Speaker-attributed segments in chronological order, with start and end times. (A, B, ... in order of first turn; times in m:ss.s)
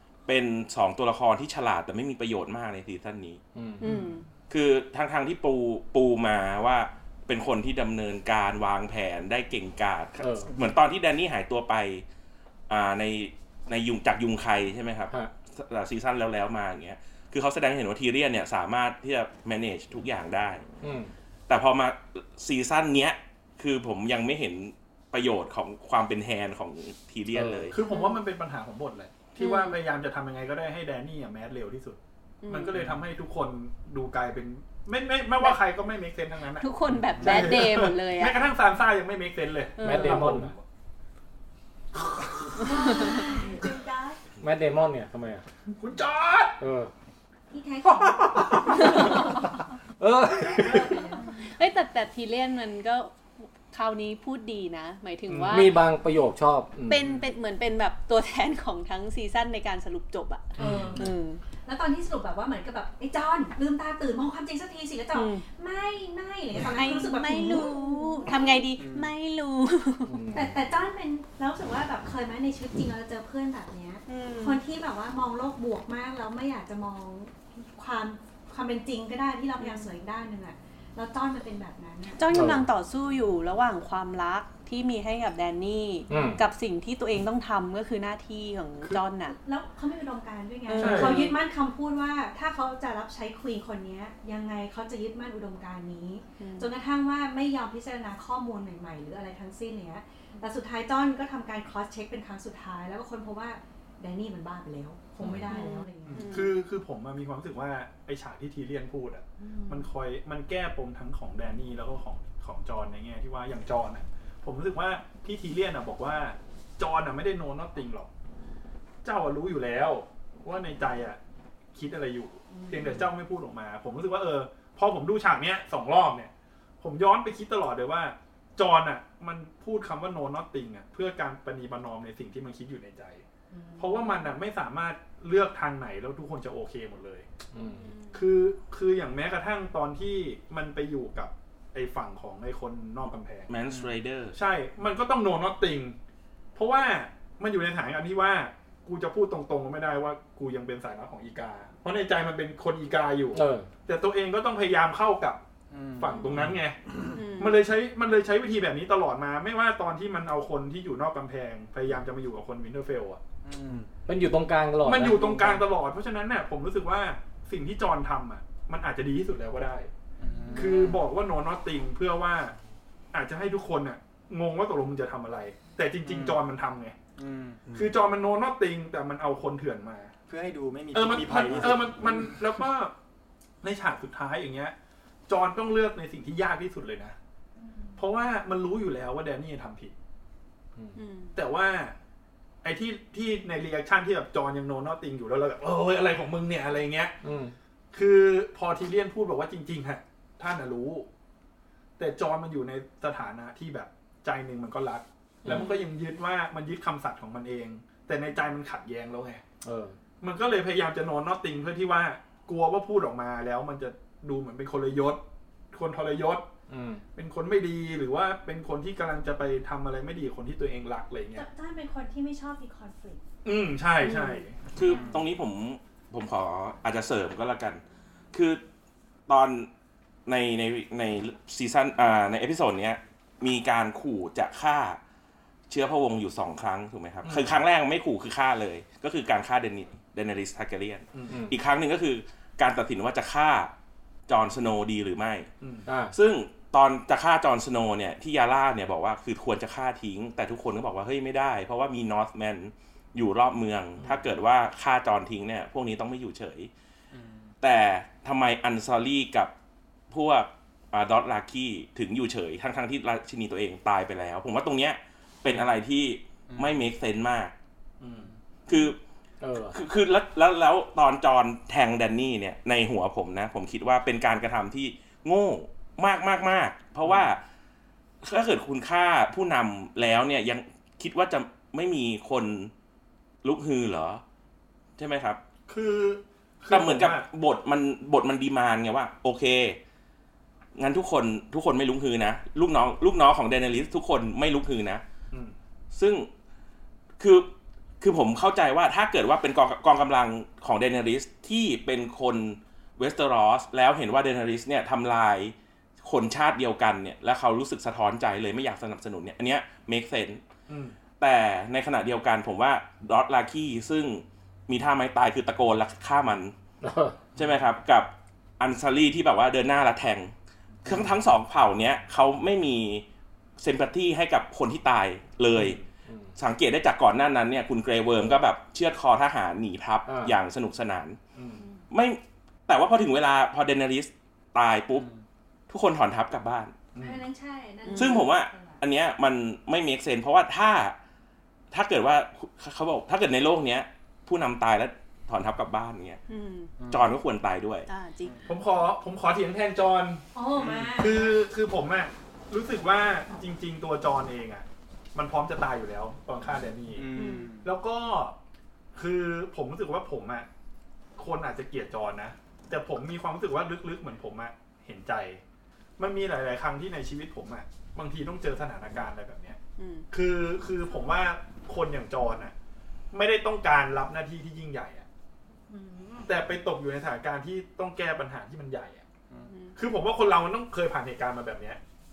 0:00.3-0:03.4 A
0:03.6-0:03.9 B
0:03.8-0:04.3 C
0:04.5-0:12.0 A
0:10.2-0:10.5 B
0:12.7-0:20.6 A
0:20.8-0:21.1 B
0:21.5-0:27.8 A
0:27.3-0:27.7 B
0:27.7-0:40.6 D
0:27.9-0:28.2 C
0:27.9-0:28.2 E
0:29.4-0:29.8 C
0:32.4-0:32.9 C
0:36.6-0:38.4 C
0:37.2-0:37.6 F
0:39.8-0:40.4 C
0:39.8-0:40.5 B
0:42.6-0:44.2 E
0:42.6-0:43.6 C
0:44.4-0:45.4 B
0:45.8-0:46.6 D
0:46.6-0:46.9 B
0:47.5-0:49.5 E
0:48.7-0:49.4 C
0:50.0-0:50.9 B
0:50.4-0:51.3 E
0:51.2-0:55.8 C
0:55.3-0:55.7 D
0:55.5-0:57.0 B
0:56.9-1:01.4 C
1:00.6-1:01.1 E
1:00.6-1:01.1 D
1:01.6-1:08.7 E
1:05.1-1:05.4 C
1:06.6-1:10.2 C
1:08.8-1:09.1 F
1:10.1-1:10.6 B
1:10.3-1:22.2 E
1:14.1-1:14.6 C
1:19.6-1:19.9 C
1:22.2-1:29.4 C
1:22.3-1:22.6 B
1:26.1-1:26.4 B
1:29.3-1:46.3 E
1:30.7-1:31.4 C
1:30.8-1:31.3 D
1:36.4-1:36.7 C
1:45.2-1:46.6 C
1:46.3-1:58.1 D
1:49.4-1:49.9 E
1:59.0-2:01.2 D
2:01.7-2:13.2 D
2:02.5-2:03.1 E
2:13.5-2:14.2 E
2:13.8-2:17.3 D
2:17.5-2:17.9 B
2:17.8-2:18.2 C
2:18.1-2:23.5 D
2:23.5-2:24.4 A
2:23.7-2:24.0 F
2:24.3-2:26.0 D
2:26.6-2:35.4 D
2:33.3-2:33.7 B
2:35.7-2:36.4 F
2:36.0-2:43.2 D
2:37.1-2:37.6 C
2:43.4-2:43.9 F
2:44.1-2:45.6 B
2:44.8-2:49.9 D
2:50.2-2:51.0 F
2:50.5-2:52.6 D
2:53.1-2:57.0 D
2:56.0-2:56.4 F
2:57.2-2:57.7 F
2:57.7-3:00.1 D
3:00.3-3:02.4 F
3:00.9-3:02.9 D
3:03.6-3:04.8 D
3:05.3-3:07.2 D
3:07.6-3:08.0 E
3:08.0-3:10.0 D
3:11.0-3:11.3 C
3:11.4-3:12.0 D
3:12.6-3:17.2 D
3:17.2-3:17.5 B
3:17.9-3:21.1 D
3:22.0-3:29.4 D
3:25.5-3:25.8 C
3:29.6-3:30.0 B
3:30.2-3:36.5 D
3:36.7-3:37.0 B
3:37.2-3:41.4 D
3:41.4-3:43.2 E
3:43.4-3:44.7 D
3:44.0-3:44.4 C
3:44.7-3:47.8 A
3:44.8-3:45.2 E
3:48.3-3:48.6 A
3:49.3-3:49.7 A
3:50.3-3:55.0 A
3:55.7-4:03.7 A
3:57.2-3:57.6 D
4:01.1-4:01.4 D
4:01.3-4:01.6 B
4:04.3-4:05.5 A
4:05.6-4:05.9 D
4:05.9-4:06.1 B
4:06.1-4:16.7 A
4:17.1-4:17.5 F
4:17.6-4:19.5 A
4:20.1-4:27.5 A
4:26.5-4:26.9 F
4:28.0-4:28.3 D
4:28.7-4:29.0 A
4:29.4-4:29.8 B
4:29.6-4:37.4 A
4:38.2-4:42.7 A
4:43.4-4:44.2 A
4:45.0-4:45.4 A
4:45.7-4:47.3 D
4:46.7-4:49.8 A
4:50.8-4:55.0 A
4:55.9-4:56.3 A
4:57.2-4:57.5 A
4:58.0-5:10.4 A
5:10.7-5:11.0 D
5:11.2-5:16.5 A
5:16.8-5:17.2 B
5:17.4-5:20.3 A
5:20.8-5:23.0 A
5:23.6-5:25.8 A
5:26.4-5:31.2 A
5:30.1-5:30.4 B
5:31.4-5:31.6 D
5:31.9-5:35.1 A
5:35.7-5:36.7 A
5:37.0-5:37.2 D
5:37.0-5:38.8 E
5:37.8-5:38.3 C
5:38.0-5:41.0 A
5:41.7-5:46.2 A
5:46.3-5:46.7 C
5:46.8-5:47.1 F
5:46.9-5:47.9 A
5:47.9-5:48.4 C
5:48.5-5:58.4 D
5:50.3-5:51.4 E
5:50.6-5:50.9 F
5:56.9-5:57.7 F
5:57.2-5:57.5 C
5:59.0-6:00.5 D
6:01.2-6:05.4 D
6:06.0-6:09.6 D
6:09.8-6:10.1 C
6:10.1-6:12.5 D
6:13.1-6:15.1 D
6:15.7-6:16.3 E
6:16.2-6:19.0 D
6:19.5-6:19.8 C
6:19.8-6:21.8 D